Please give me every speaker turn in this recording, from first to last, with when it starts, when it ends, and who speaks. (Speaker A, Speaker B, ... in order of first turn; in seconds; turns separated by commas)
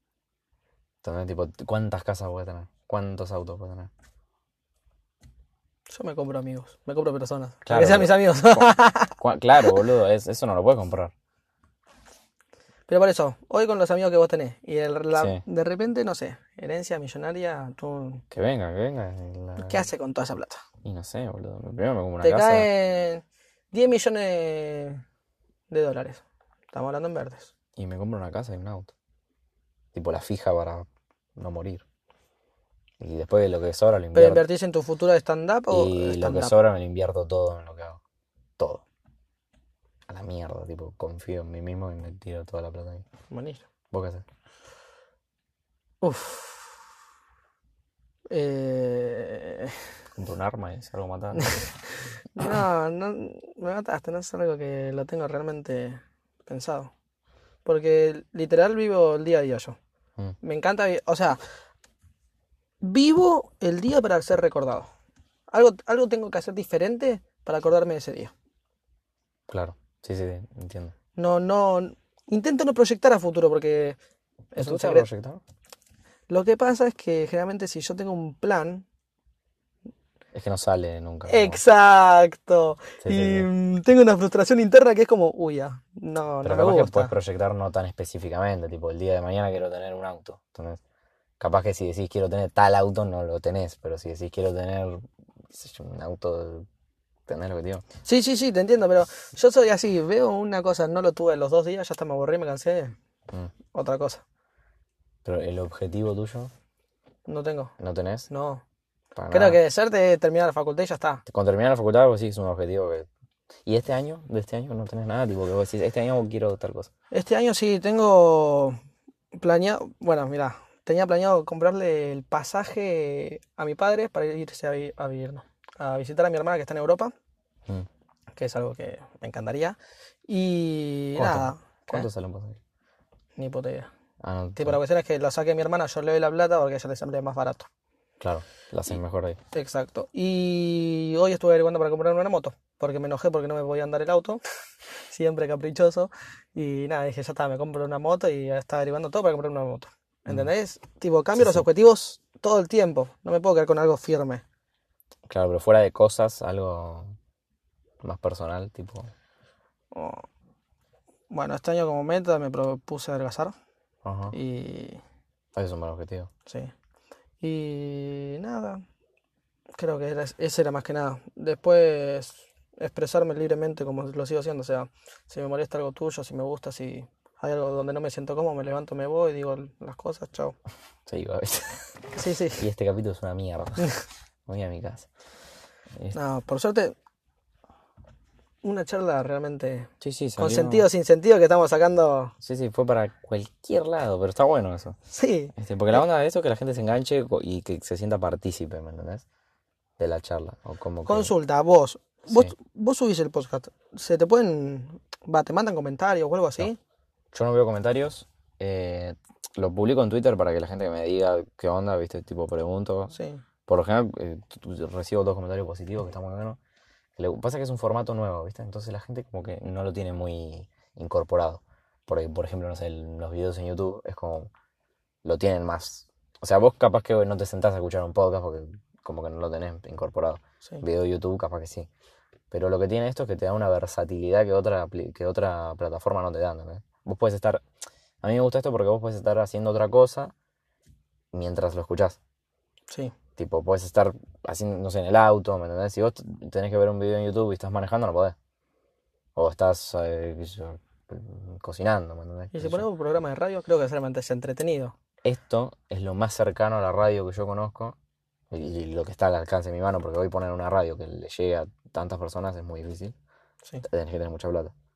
Speaker A: 1.0-3.9, Speaker B: 5.9-9.8, Speaker A: 7.7-11.1, Speaker B: 12.9-18.2, Speaker A: 15.2-15.4, Speaker A: 18.3-19.9, Speaker B: 19.6-20.6, Speaker A: 20.8-22.7, Speaker B: 22.2-25.0, Speaker B: 25.7-27.5, Speaker A: 27.8-28.9, Speaker A: 29.9-31.9, Speaker A: 33.0-34.5, Speaker B: 34.1-36.5, Speaker A: 35.7-38.0, Speaker A: 38.6-38.8, Speaker A: 40.1-43.0, Speaker B: 43.3-43.6, Speaker A: 43.9-44.2, Speaker B: 46.0-46.7, Speaker B: 48.3-49.8, Speaker A: 50.1-51.7, Speaker B: 51.4-56.9, Speaker B: 57.6-59.8, Speaker B: 60.4-61.4, Speaker B: 62.8-64.9, Speaker B: 65.5-68.3, Speaker A: 69.5-71.0, Speaker B: 71.2-74.0, Speaker B: 74.5-75.1, Speaker A: 74.6-75.4, Speaker B: 76.3-78.8, Speaker A: 80.3-81.6, Speaker B: 81.3-87.1, Speaker A: 83.0-83.5, Speaker A: 86.4-90.8, Speaker A: 91.4-96.7, Speaker A: 97.3-97.8, Speaker B: 98.0-103.0, Speaker B: 103.7-104.2, Speaker A: 105.2-106.5, Speaker B: 107.3-107.7, Speaker A: 107.8-108.3, Speaker B: 108.3-108.6, Speaker A: 109.2-109.6, Speaker B: 109.3-111.2, Speaker A: 111.3-113.1, Speaker A: 113.7-116.9, Speaker B: 117.1-118.8, Speaker B: 119.3-127.1, Speaker B: 128.4-129.8, Speaker B: 130.3-132.1, Speaker A: 131.2-132.6, Speaker B: 133.4-133.9, Speaker A: 134.2-134.8, Speaker B: 134.6-137.7, Speaker A: 138.2-139.4, Speaker B: 139.5-144.4, Speaker B: 145.1-154.4, Speaker A: 151.4-151.7, Speaker A: 155.3-157.2, Speaker A: 158.0-159.1, Speaker B: 159.9-160.3, Speaker B: 161.3-163.6, Speaker A: 164.0-164.4, Speaker B: 164.3-165.0, Speaker A: 165.6-166.3, Speaker B: 166.5-166.7, Speaker B: 167.4-168.8, Speaker B: 169.8-180.6, Speaker A: 181.1-185.1, Speaker B: 182.1-182.7, Speaker B: 186.1-186.9, Speaker B: 188.6-192.3, Speaker A: 190.0-190.9, Speaker A: 192.4-195.0, Speaker B: 195.1-195.5, Speaker A: 195.6-199.2, Speaker A: 200.0-201.3, Speaker B: 201.1-206.8, Speaker A: 207.3-213.2, Speaker B: 213.1-213.4, Speaker A: 213.7-216.6, Speaker A: 217.2-224.5, Speaker A: 225.2-231.9, Speaker A: 232.5-237.6, Speaker A: 238.2-240.3, Speaker A: 241.3-242.2, Speaker A: 243.4-248.4, Speaker A: 249.3-252.8, Speaker B: 252.5-254.9, Speaker A: 255.2-258.0, Speaker A: 258.5-263.1, Speaker A: 263.8-264.7